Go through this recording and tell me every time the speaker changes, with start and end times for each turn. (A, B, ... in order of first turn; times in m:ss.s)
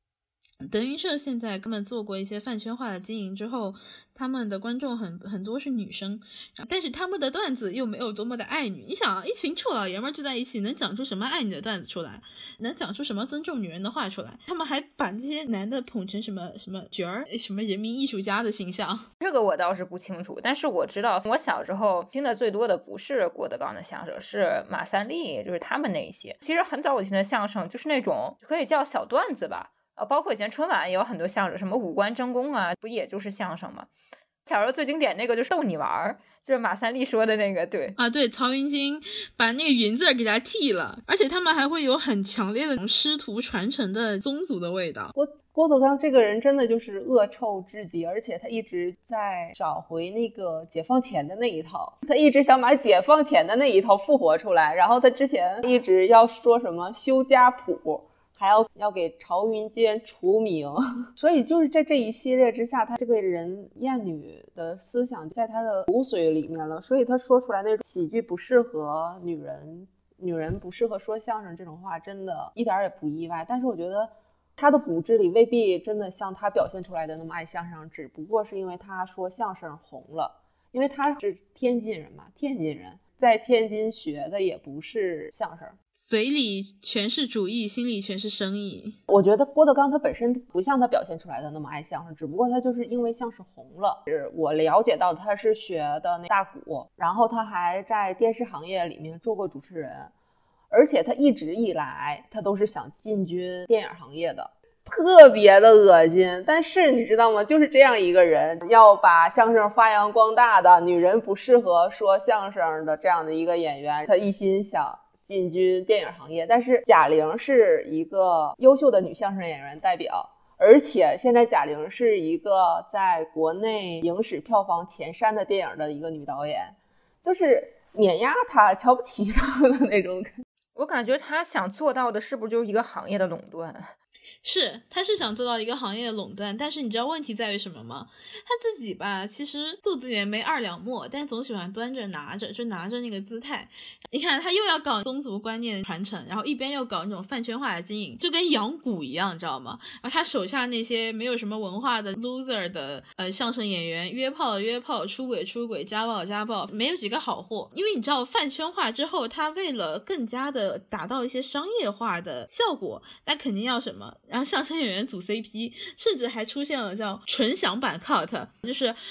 0:00.6-0:19.1 A
0:19.2-0:33.9 B
0:34.4-0:37.9 B
0:38.0-0:45.1 A
0:45.1-1:25.8 C
1:26.0-1:29.0 A
1:29.1-1:40.1 C
1:40.7-2:10.3 C
2:10.7-2:13.9 B
2:14.4-2:49.0 A